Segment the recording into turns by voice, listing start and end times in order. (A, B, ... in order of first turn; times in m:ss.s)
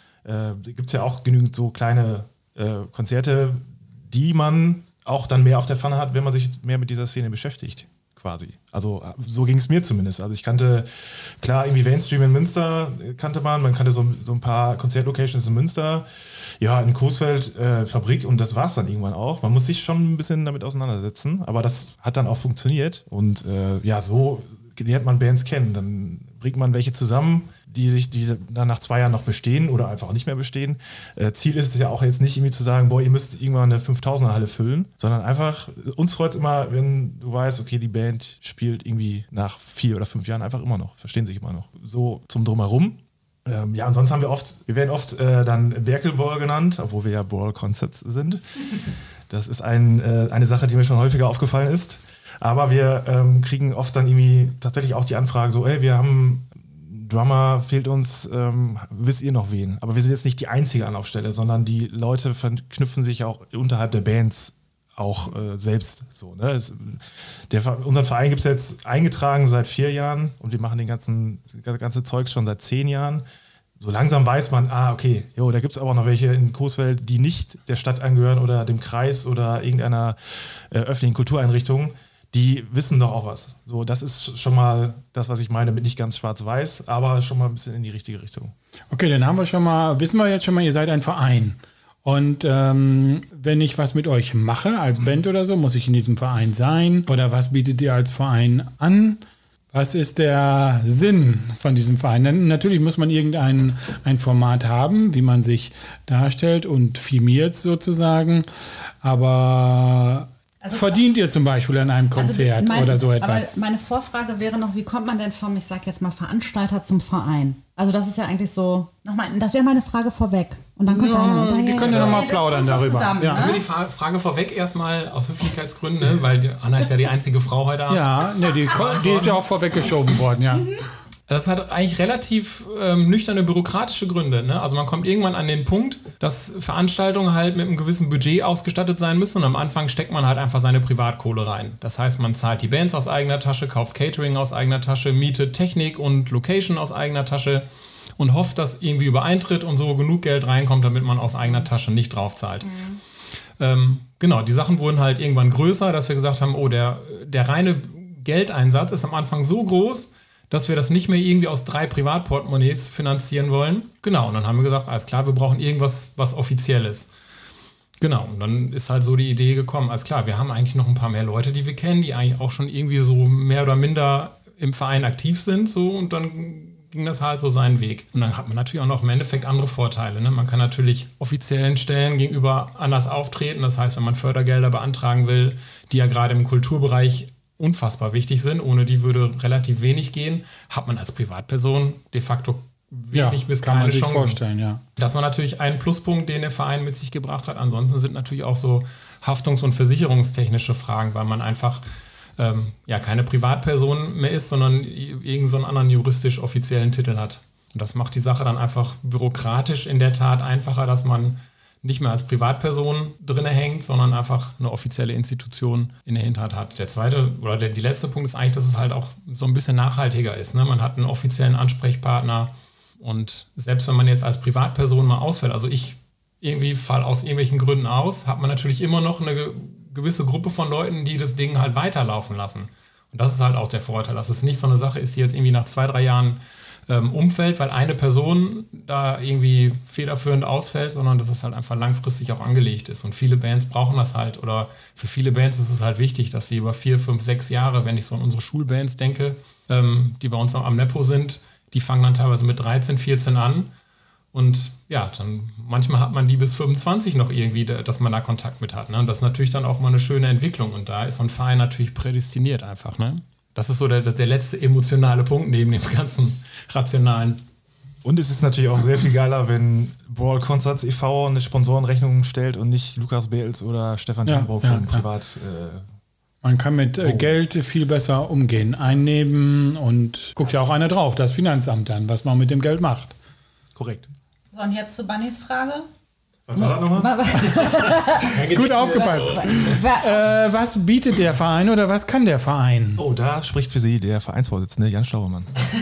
0:00.2-0:10.9 A
0:11.4-0:16.1 A
0:16.6-1:13.2 A
1:13.8-1:28.5 A
1:28.9-1:39.2 B
1:39.7-1:53.6 B
1:50.6-1:51.0 C
1:52.2-2:03.6 C
2:00.9-2:03.5 B
2:01.9-2:02.2 D
2:03.3-2:10.0 D
2:07.9-2:10.7 B
2:10.5-2:10.8 C
2:11.3-2:27.7 D
2:28.2-2:32.8 D
2:32.6-2:33.0 C
2:33.6-2:47.1 D
2:48.0-3:14.4 D
3:13.1-3:14.8 B
3:15.0-3:21.8 D
3:22.4-4:13.7 D
4:14.3-4:27.4 D
4:28.0-4:35.8 A
4:34.3-4:35.1 B
4:36.4-4:43.2 B
4:37.0-4:37.4 A
4:43.8-4:44.1 A
4:44.5-4:45.9 C
4:46.5-4:47.4 A
4:46.6-4:50.3 C
4:48.2-4:49.8 D
4:48.3-4:53.0 B
4:53.0-4:55.5 A